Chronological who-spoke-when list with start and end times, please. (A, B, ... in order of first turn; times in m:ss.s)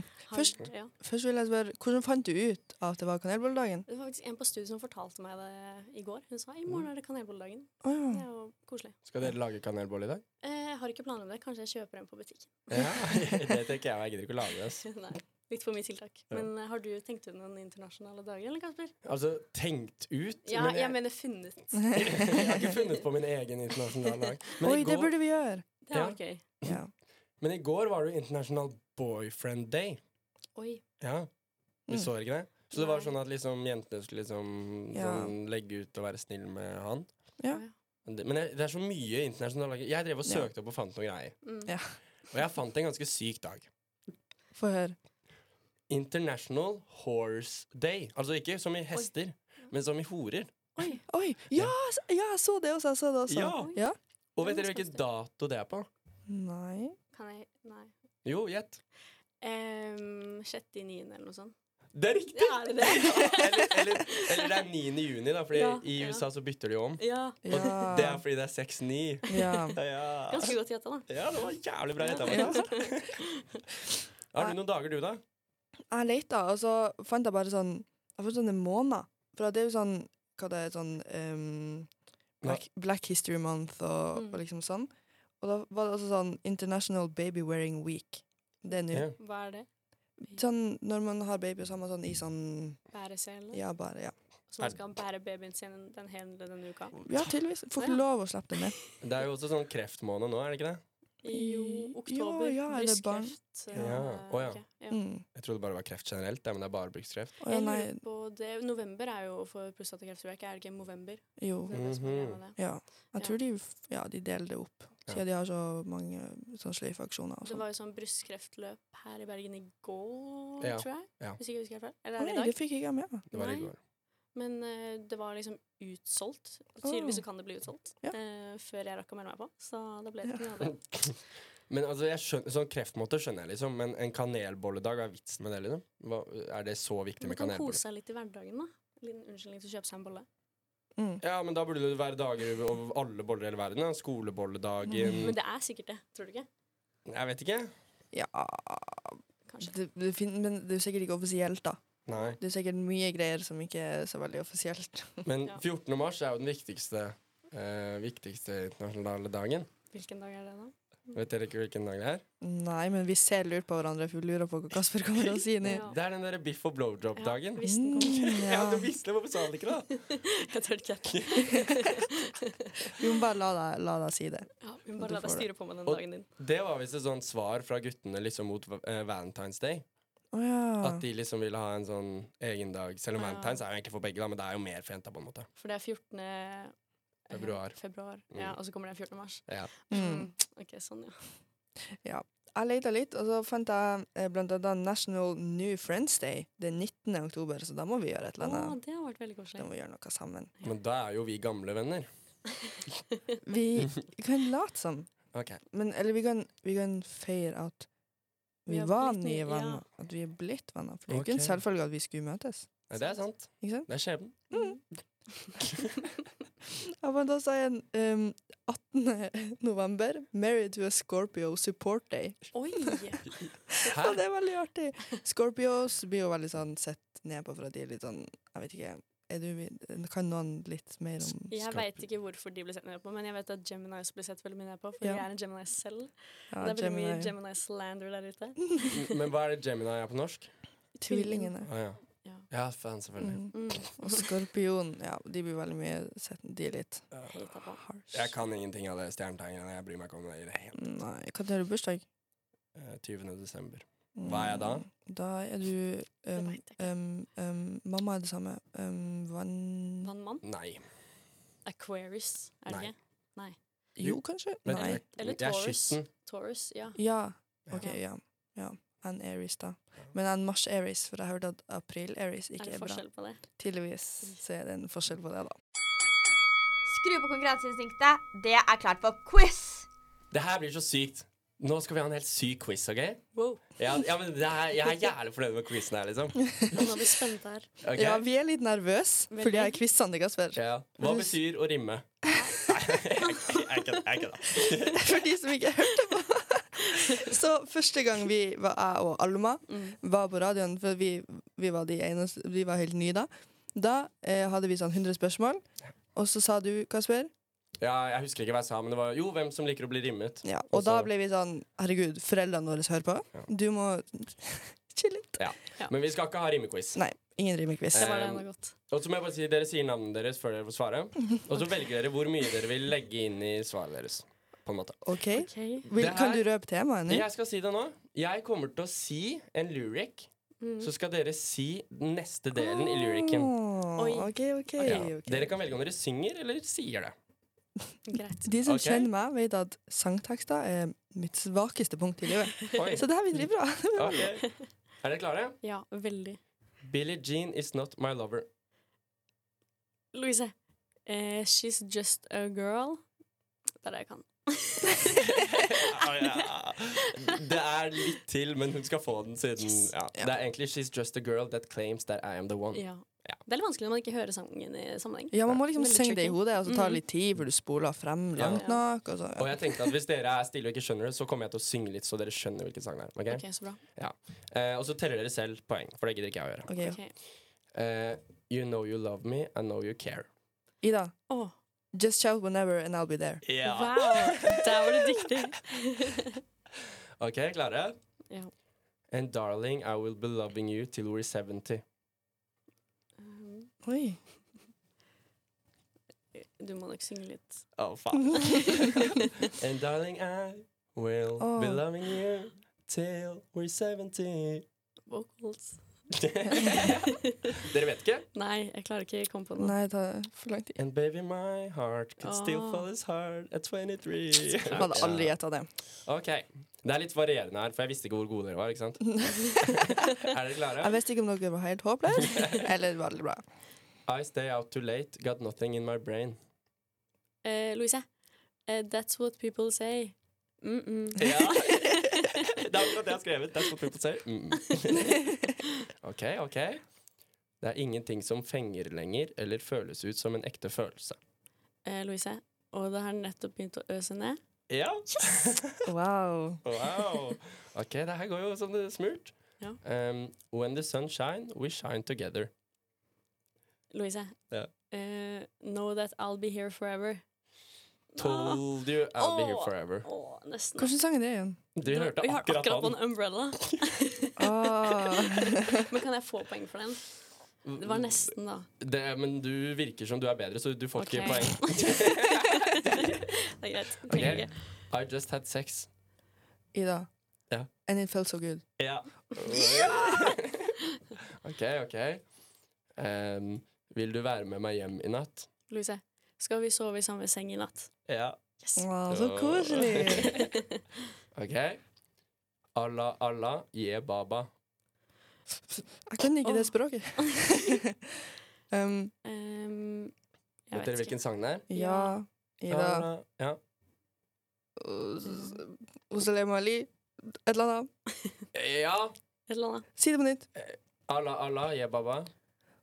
0:00.2-0:00.9 A
0:00.3-0:03.8 B
0:03.9-0:09.0 A
0:07.8-0:08.2 B
0:09.1-0:10.2 C
0:10.4-0:12.6 A
0:12.7-0:14.8 C
0:12.8-0:13.5 B
0:14.8-0:18.9 A
0:19.0-0:21.0 C
0:20.4-0:22.3 A
0:21.9-0:25.1 C
0:24.6-0:25.6 B
0:25.8-0:26.4 A
0:25.9-0:26.8 C
0:26.6-0:26.9 B
0:27.4-0:30.0 C
0:30.6-0:30.8 A
0:31.0-0:31.3 C
0:31.9-0:37.1 C
0:32.7-0:33.1 A
0:34.9-0:35.3 B
0:38.0-0:41.4 C
0:41.4-0:41.7 A
0:42.3-0:43.7 C
0:44.5-0:45.0 B
0:45.9-0:50.5 C
0:50.8-0:51.0 A
0:51.1-0:54.0 B
0:53.3-0:53.7 C
0:53.6-0:53.8 A
0:54.4-0:55.9 C
0:54.4-0:55.0 A
0:56.3-0:57.0 B
0:57.1-0:57.9 A
0:58.2-0:58.8 C
0:59.4-1:01.5 A
1:01.9-1:10.6 C
1:02.3-1:04.4 A
1:05.5-1:06.2 A
1:07.0-1:07.9 A
1:07.4-1:08.2 B
1:09.3-1:09.8 B
1:10.3-1:11.1 A
1:11.1-1:13.2 C
1:12.0-1:13.6 A
1:12.2-1:12.6 B
1:14.3-1:15.2 C
1:15.9-1:21.9 B
1:22.4-1:29.1 B
1:24.1-1:24.4 A
1:28.7-1:29.7 A
1:30.2-1:32.8 B
1:32.9-1:33.6 A
1:33.5-1:34.1 B
1:34.5-1:37.0 A
1:37.0-1:38.8 B
1:39.0-1:40.8 C
1:41.2-1:45.0 A
1:41.3-1:44.0 B
1:43.7-1:44.6 C
1:44.9-1:45.2 B
1:45.3-1:47.4 C
1:47.4-1:48.0 B
1:47.5-1:52.6 A
1:51.4-1:51.9 B
1:51.7-1:52.4 C
1:52.6-1:57.6 B
1:57.4-2:02.6 A
2:00.6-2:01.4 C
2:02.2-2:03.2 B
2:03.3-2:03.7 A
2:03.3-2:03.8 C
2:04.3-2:10.8 A
2:06.8-2:07.2 B
2:10.6-2:11.2 C
2:11.7-2:17.8 C
2:17.2-2:20.3 A
2:21.0-2:21.2 B
2:21.2-2:25.4 C
2:24.9-2:25.2 B
2:25.0-2:26.5 A
2:27.0-2:27.7 C
2:28.1-2:35.2 B
2:29.5-2:29.7 A
2:32.1-2:32.4 C
2:35.2-2:39.7 C
2:39.9-2:41.2 A
2:41.1-2:42.2 C
2:42.4-2:45.8 B
2:45.4-2:50.0 C
2:45.6-2:46.0 A
2:47.2-2:48.4 A
2:47.6-2:48.9 B
2:50.0-2:52.9 A
2:51.1-2:51.5 C
2:52.8-2:55.5 B
2:54.6-2:56.2 A
2:55.8-2:59.8 C
3:00.3-3:01.0 B
3:00.8-3:05.5 C
3:03.2-3:03.6 A
3:05.6-3:06.7 A
3:07.3-3:11.2 A
3:07.3-3:07.8 C
3:08.3-3:08.6 C
3:09.5-3:09.7 C
3:09.9-3:10.3 B
3:12.0-3:18.8 B
3:18.4-3:19.7 A
3:19.6-3:20.5 B
3:20.6-3:22.1 C
3:23.4-3:25.1 B
3:25.3-3:25.6 C
3:25.6-3:27.9 B
3:28.6-3:32.8 B
3:28.7-3:29.8 A
3:31.1-3:31.6 C
3:32.9-3:34.5 C
3:32.9-3:33.2 A
3:33.6-3:33.9 B
3:34.5-3:34.8 A
3:36.8-3:43.0 B
3:42.5-3:43.3 A
3:43.8-3:51.5 B
3:43.9-3:44.2 C
3:51.5-3:59.0 A
3:51.6-3:52.0 C
3:56.5-3:57.3 B
3:58.9-4:00.5 C
4:01.0-4:01.7 B
4:01.1-4:01.5 A
4:01.6-4:02.0 C
4:02.5-4:03.6 C
4:03.2-4:07.1 B
4:03.5-4:04.3 A
4:07.3-4:07.8 A
4:07.8-4:08.3 B
4:08.1-4:10.8 C
4:10.8-4:12.0 B
4:12.8-4:14.8 C
4:14.2-4:20.1 B
4:16.3-4:16.9 A
4:20.0-4:20.4 A
4:20.4-4:20.8 C
4:21.6-4:23.6 A
4:24.0-4:25.0 B
4:24.0-4:26.1 C
4:24.7-4:27.0 A
4:27.0-4:33.0 B
4:32.6-4:33.4 A
4:33.6-4:35.6 B
4:36.8-4:39.9 D
4:40.3-4:43.2 C
4:43.3-4:43.6 A
4:43.8-4:46.9 C
4:46.7-4:47.7 A
4:47.8-4:48.2 C
4:47.9-4:51.4 B
4:49.3-4:49.8 A
4:50.6-4:55.1 C
4:52.3-4:52.6 A
4:54.9-5:07.3 B
4:56.9-4:57.3 A
4:59.7-5:00.0 A
5:07.8-5:11.1 C
5:10.4-5:15.4 B
5:15.4-5:17.0 C
5:16.9-5:18.2 B
5:17.9-5:25.0 C
5:18.0-5:18.7 A
5:25.0-5:27.2 B
5:25.3-5:25.9 A
5:25.9-5:26.4 C
5:27.1-5:30.3 C
5:30.6-5:30.9 A
5:30.8-5:33.5 C
5:32.5-5:35.5 B
5:34.0-5:34.3 A
5:34.8-5:37.1 C
5:38.1-5:38.5 A
5:38.4-5:44.4 B
5:38.6-5:39.1 C
5:42.7-5:43.0 C
5:43.9-5:44.4 C
5:45.0-5:45.6 C
5:45.6-5:46.4 A
5:46.8-5:48.5 C
5:50.1-5:50.5 A
5:51.0-5:53.0 A
5:53.8-5:56.4 A
5:55.5-6:03.4 C
5:57.0-5:57.3 A
6:02.7-6:07.0 A
6:05.3-6:09.8 B
6:08.4-6:08.6 C
6:08.5-6:08.8 A
6:09.4-6:16.7 C
6:13.3-6:13.8 A
6:16.7-6:17.0 B
6:16.8-6:17.1 A
6:17.7-6:20.3 C
6:20.8-6:21.1 B
6:21.3-6:21.5 A
6:21.9-6:23.4 B
6:23.4-6:25.2 C
6:23.6-6:26.4 A
6:27.2-6:28.0 C
6:29.1-6:31.8 C
6:33.2-6:33.7 A
6:33.8-6:34.2 B
6:36.3-6:37.7 A
6:37.8-6:44.6 C
6:38.3-6:39.3 A
6:41.4-6:41.8 B
6:45.1-6:45.8 A
6:46.1-6:48.2 C
6:46.5-6:47.6 A
6:48.3-6:49.7 A
6:49.6-6:50.8 B
6:50.8-6:55.3 C
6:52.2-6:52.8 A
6:54.7-6:55.7 B
6:56.0-7:01.0 C
7:00.8-7:03.4 B
7:02.2-7:02.6 C
7:04.1-7:06.4 C
7:07.4-7:08.1 A
7:08.6-7:12.4 A
7:11.2-7:15.2 C
7:16.0-7:16.8 C
7:17.6-7:21.2 C
7:21.8-7:24.4 A
7:24.7-7:25.8 C
7:25.1-7:25.5 A
7:25.8-7:26.6 B
7:26.6-7:32.5 C
7:33.9-7:34.4 A
7:34.9-7:37.2 A
7:38.1-7:38.6 A
7:38.2-7:40.0 C
7:39.1-7:41.0 A
7:40.8-7:41.6 B
7:41.8-7:43.0 C
7:41.8-7:47.1 A
7:44.4-7:45.8 B
7:47.6-7:53.3 C
7:47.8-7:48.7 A
7:51.0-7:54.5 A
7:54.1-7:55.9 C
7:54.1-7:54.4 B
7:56.7-7:57.1 B
7:57.8-7:58.6 B
7:58.8-8:00.7 C
8:01.4-8:02.2 C
8:03.0-8:05.5 C
8:05.7-8:07.9 A
8:08.1-8:08.4 C
8:08.6-8:08.8 A
8:08.8-8:10.4 B
8:09.1-8:10.4 C
8:10.1-8:10.8 A
8:11.3-8:11.8 C
8:12.7-8:14.5 C
8:15.8-8:19.1 B
8:16.4-8:17.6 A
8:19.2-8:20.1 A
8:20.7-8:21.2 A
8:20.7-8:21.6 C
8:21.7-8:23.1 B
8:21.7-8:22.2 A
8:22.7-8:23.6 C
8:24.8-8:27.9 B
8:25.2-8:25.6 A
8:28.5-8:29.1 C
8:29.5-8:29.9 A
8:30.0-8:30.5 B
8:30.6-8:32.3 C